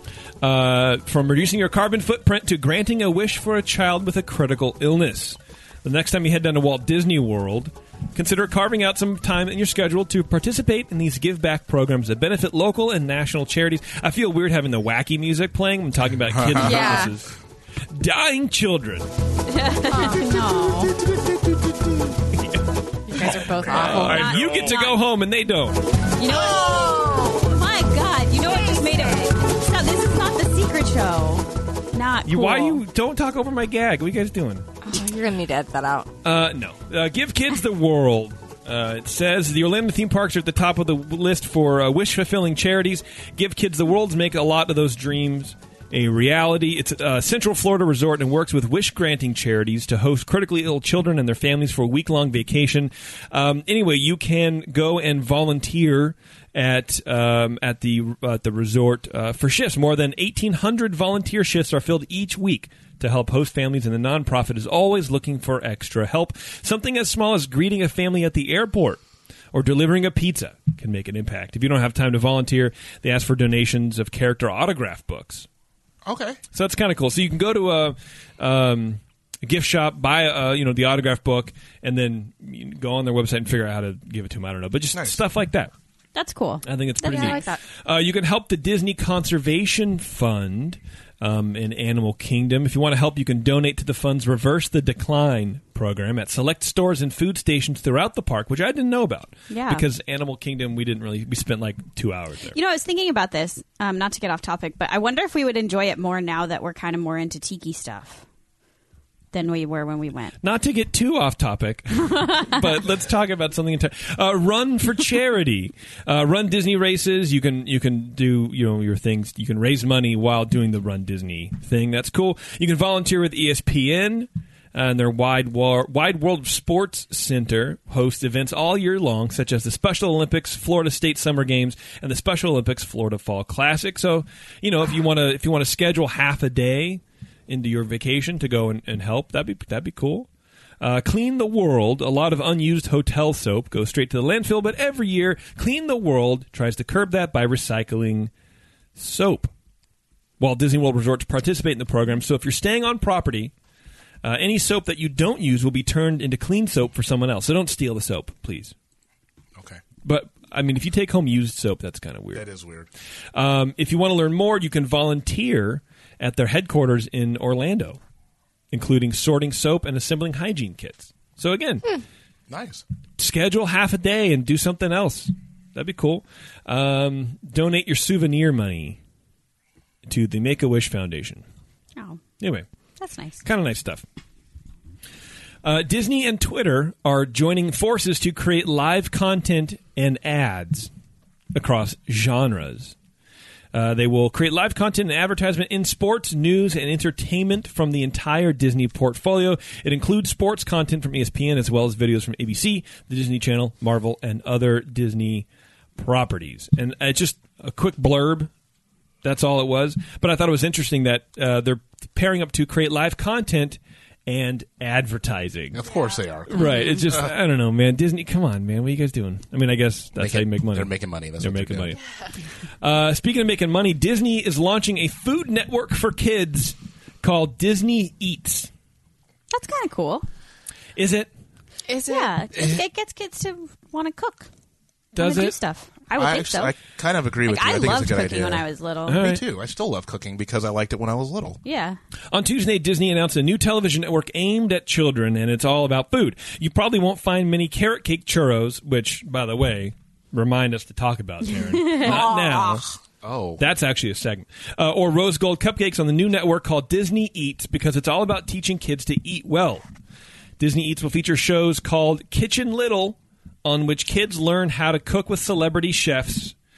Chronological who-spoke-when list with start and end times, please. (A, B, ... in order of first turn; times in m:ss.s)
0:00.4-0:17.3 A
0:16.3-0:17.0 B
0:16.6-0:17.1 C
0:17.9-0:19.1 A
0:19.5-0:21.0 D
0:19.8-0:20.5 C
0:21.0-0:21.9 B
0:22.3-0:22.6 A
0:23.1-0:24.3 C
0:23.1-0:25.8 A
0:23.8-0:25.0 D
0:26.2-0:32.8 D
0:26.2-0:27.5 C
0:28.4-0:29.3 C
0:32.2-0:34.7 A
0:34.8-0:36.1 C
0:36.2-1:09.0 A
1:09.5-1:15.5 A
1:16.0-1:16.4 B
1:16.5-1:25.7 A
1:26.1-1:27.4 D
1:26.6-1:42.6 A
1:27.0-1:27.6 C
1:39.5-1:39.9 D
1:42.5-1:48.2 D
1:49.3-1:50.3 D
1:50.4-2:20.3 A
1:52.1-1:52.6 D
2:20.8-2:28.3 A
2:29.0-2:29.5 A
2:30.4-2:33.5 A
2:34.2-2:38.7 A
2:39.6-2:39.8 B
2:40.0-2:42.4 A
2:42.3-2:42.9 B
2:43.3-2:48.0 A
2:48.7-2:52.0 A
2:52.5-2:52.8 B
2:53.2-2:59.0 A
3:00.0-3:01.4 A
3:02.4-3:02.6 A
3:03.0-3:03.4 D
3:03.4-3:04.0 A
3:05.6-3:10.9 A
3:11.5-3:12.9 A
3:13.7-3:25.4 A
3:26.0-3:28.5 A
3:29.2-3:35.8 A
3:35.7-3:37.3 B
3:35.8-3:36.2 C
3:36.5-3:42.0 A
3:36.5-3:37.1 D
3:40.2-3:42.0 B
3:42.8-3:48.7 A
3:49.5-3:50.2 D
3:51.0-3:51.3 A
3:51.9-3:52.4 C
3:52.1-3:54.5 D
3:52.6-3:52.8 B
3:55.1-3:55.5 A
3:55.2-3:56.8 D
3:56.1-4:01.6 B
3:57.4-3:59.2 D
3:59.1-3:59.4 A
4:01.6-4:02.0 D
4:02.3-4:12.8 A
4:11.4-4:12.8 D
4:13.2-4:13.6 B
4:13.6-4:19.8 A
4:20.6-4:26.5 A